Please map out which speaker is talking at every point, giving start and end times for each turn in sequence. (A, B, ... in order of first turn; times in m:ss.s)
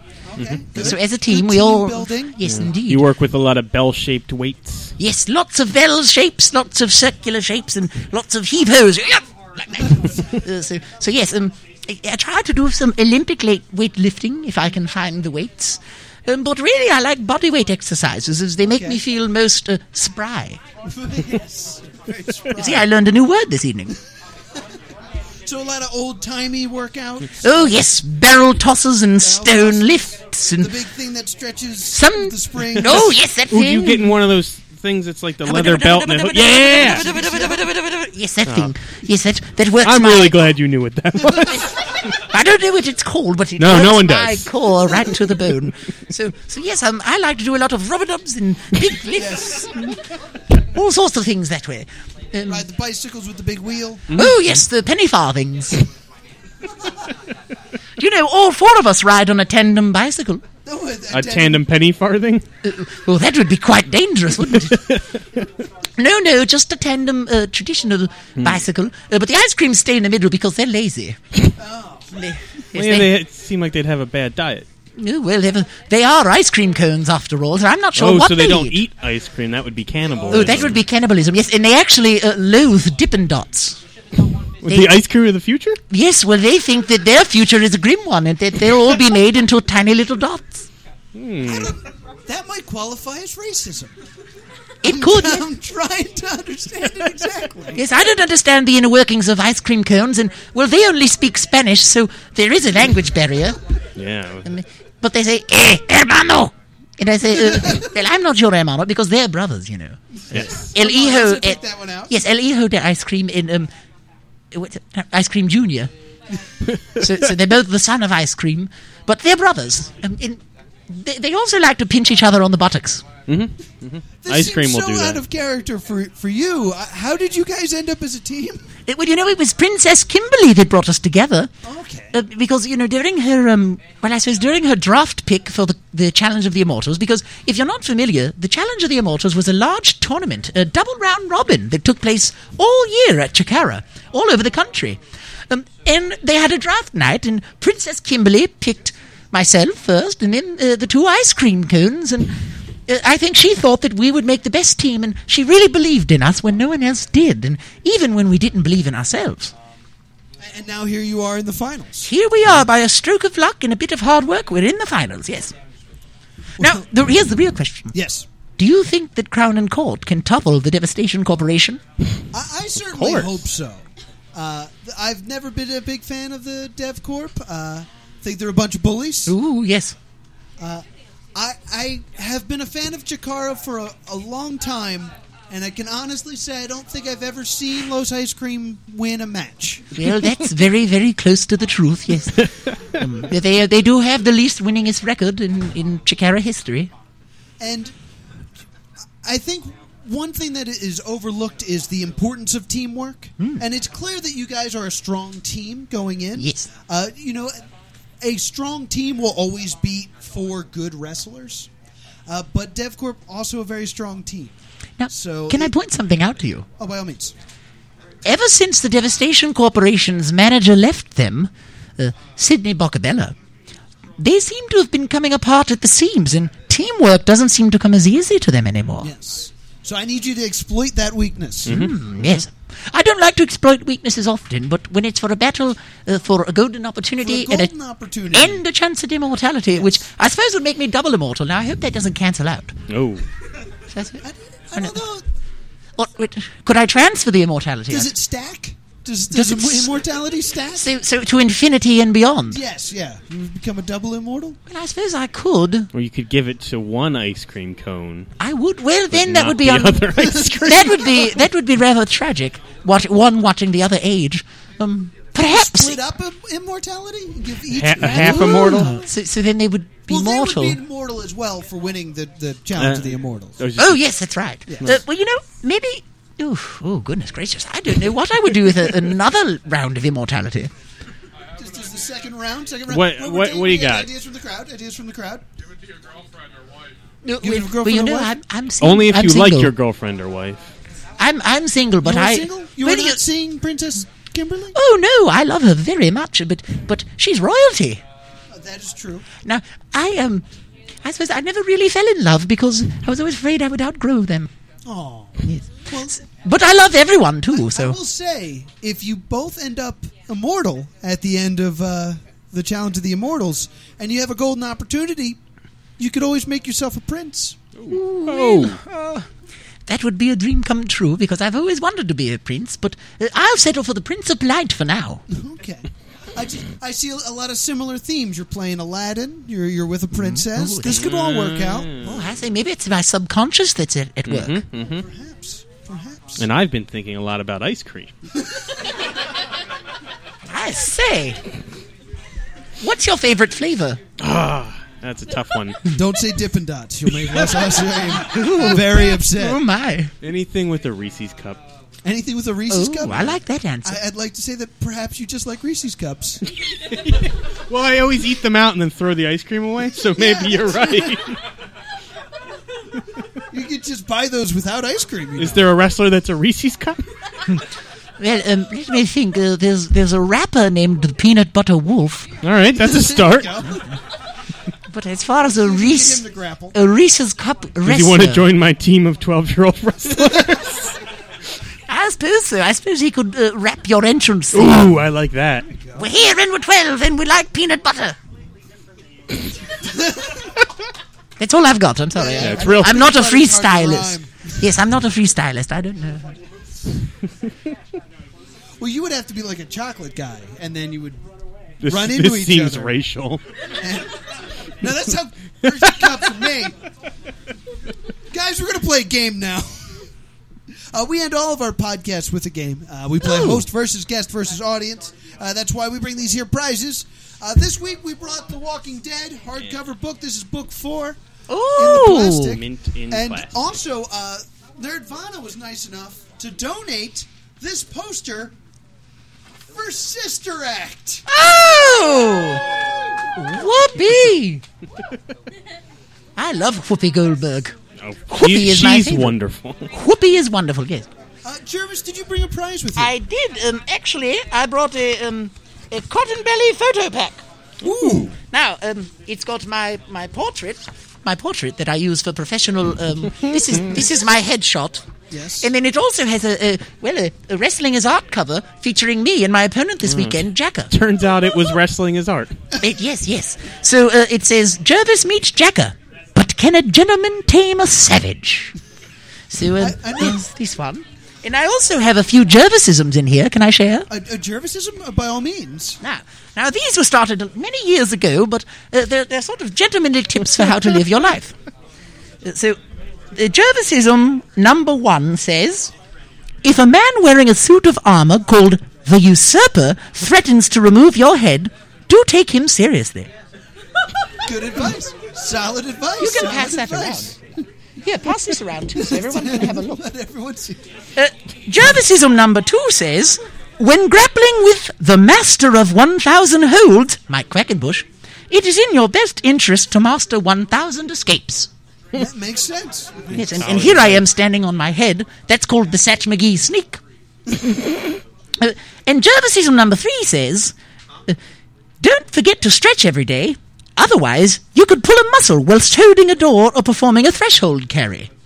0:00.3-0:02.4 A
0:00.8-0:03.1 B
0:02.4-0:04.9 C
0:05.0-0:20.6 B
0:18.7-0:19.0 A
0:20.8-0:22.9 A
0:22.5-0:24.0 B
0:25.5-0:27.8 A
0:27.4-0:30.7 B
0:29.2-0:33.2 A
0:31.9-0:34.1 B
0:33.5-0:37.2 C
0:35.4-0:40.5 B
0:38.5-0:38.7 C
0:39.8-0:41.7 C
0:41.5-0:50.0 B
0:43.6-0:44.5 C
0:49.1-0:49.8 A
0:50.7-0:52.6 B
0:52.5-0:54.1 A
0:54.1-0:54.4 C
0:54.1-0:55.8 B
0:58.0-1:00.4 B
1:00.6-1:01.6 A
1:01.1-1:02.4 C
1:02.6-1:05.0 B
1:04.7-1:05.4 C
1:06.0-1:11.2 B
1:08.4-1:08.6 C
1:11.6-1:12.3 A
1:12.1-1:13.2 B
1:12.8-1:14.7 C
1:15.0-1:18.8 B
1:18.0-1:20.8 C
1:20.1-1:20.8 A
1:20.3-1:23.8 B
1:24.6-1:25.8 C
1:24.7-1:25.0 B
1:25.9-1:30.7 B
1:31.2-1:31.7 C
1:31.5-1:31.8 A
1:32.3-1:34.0 A
1:34.8-1:35.5 B
1:34.8-1:37.8 A
1:37.7-1:43.6 B
1:44.0-1:44.5 C
1:44.4-1:53.7 B
1:47.5-1:47.8 A
1:50.3-1:52.2 A
1:50.3-1:50.7 C
1:54.5-1:55.9 B
1:57.0-2:03.0 B
2:03.3-2:05.2 C
2:04.2-2:08.7 A
2:08.9-2:11.5 B
2:11.6-2:12.1 A
2:12.1-2:39.5 B
2:40.4-2:42.1 A
2:42.0-2:45.5 B
2:46.6-2:46.8 A
2:46.6-2:47.9 B
2:47.9-2:48.3 A
2:48.6-2:51.8 B
2:52.3-2:59.4 A
2:52.9-2:53.3 C
2:59.3-3:00.0 B
3:00.6-3:09.9 A
3:10.0-3:16.9 B
3:17.6-3:18.0 A
3:19.2-3:27.6 A
3:26.4-3:26.7 B
3:28.2-3:31.7 A
3:32.3-3:34.5 A
3:35.0-3:36.7 B
3:35.1-3:35.7 A
3:36.8-3:37.4 A
3:38.2-3:43.4 B
3:44.2-3:49.1 B
3:49.0-3:51.8 A
3:51.7-3:51.9 C
3:51.7-3:57.7 B
3:57.2-3:58.6 A
3:58.3-4:02.8 B
4:02.9-4:03.2 C
4:03.9-4:04.2 B
4:04.2-4:05.2 A
4:06.0-4:08.1 B
4:07.9-4:10.9 A
4:09.3-4:10.0 B
4:10.8-4:12.6 B
4:12.5-4:14.6 A
4:14.7-4:15.9 B
4:15.9-4:18.3 C
4:18.4-4:26.0 B
4:19.1-4:21.0 C
4:20.1-4:21.3 A
4:25.4-4:28.9 A
4:27.7-4:29.0 C
4:28.0-4:30.8 B
4:30.1-4:33.6 A
4:32.8-4:34.0 C
4:33.8-4:40.7 B
4:34.7-4:35.0 A
4:41.6-4:45.4 A
4:42.9-4:44.1 C
4:47.2-4:49.7 B
4:47.4-4:48.3 A
4:48.8-4:50.7 C
4:51.2-4:53.2 B
4:52.0-4:54.8 A
4:54.8-4:58.0 B
4:58.5-4:59.3 A
4:59.4-5:00.4 B
5:01.0-5:04.5 B
5:04.8-5:06.2 A
5:05.5-5:08.0 B
5:07.5-5:15.4 A
5:16.0-5:17.6 A
5:17.8-5:18.8 C
5:17.9-5:19.2 B
5:19.9-5:25.2 B
5:25.3-5:32.0 A
5:30.2-5:31.1 B
5:30.8-5:32.3 C
5:32.0-5:34.6 B
5:34.3-5:35.1 C
5:35.0-5:36.5 A
5:36.4-5:38.1 C
5:40.5-5:41.4 B
5:42.8-5:44.0 B
5:44.2-5:45.9 C
5:45.9-5:49.6 A
5:48.2-5:50.1 B
5:50.2-5:51.6 C
5:52.0-5:56.4 A
5:52.7-5:54.0 B
5:57.0-6:01.4 C
6:00.2-6:01.2 A
6:03.5-6:05.7 A
6:05.4-6:07.0 C
6:08.2-6:12.3 B
6:12.4-6:13.6 C
6:12.8-6:13.8 A
6:14.9-6:18.5 B
6:15.5-6:16.8 A
6:17.8-6:21.0 C
6:21.9-6:25.0 B
6:24.5-6:25.7 C
6:25.8-6:26.1 A
6:26.0-6:28.2 B
6:29.8-6:30.5 A
6:31.4-6:36.4 B
6:32.1-6:34.5 A
6:32.4-6:33.0 C
6:38.8-6:41.2 A
6:41.8-6:43.4 C
6:41.8-6:43.0 A
6:43.8-6:44.2 A
6:44.8-6:46.8 A
6:48.3-6:50.0 A
6:50.9-7:01.2 A
6:53.2-6:53.6 B
7:01.5-7:02.6 B
7:01.8-7:08.5 A
7:02.4-7:03.5 C
7:09.7-7:11.2 A
7:11.3-7:12.6 B
7:13.3-7:14.6 B
7:16.4-7:17.8 B
7:18.0-7:19.9 C
7:18.3-7:19.4 B
7:19.9-7:21.1 B
7:21.4-7:23.1 A
7:23.0-7:27.4 B
7:27.8-7:28.3 A
7:28.5-7:35.1 B
7:35.3-7:35.7 A
7:35.6-7:40.9 B
7:40.1-7:40.4 C
7:40.9-7:42.6 C
7:42.8-7:48.8 B
7:49.5-7:54.1 B
7:49.8-7:50.4 A
7:54.1-7:56.0 A
7:56.0-8:01.6 B
8:02.4-8:02.8 B
8:03.3-8:05.9 B
8:06.6-8:13.3 B
8:14.4-8:17.4 A
8:16.2-8:17.4 B
8:18.0-8:20.0 B
8:19.0-8:20.8 A
8:21.2-8:31.7 B
8:32.1-8:33.5 A
8:33.3-8:37.0 B
8:33.6-8:34.2 C
8:38.6-8:40.7 B
8:42.0-8:48.3 B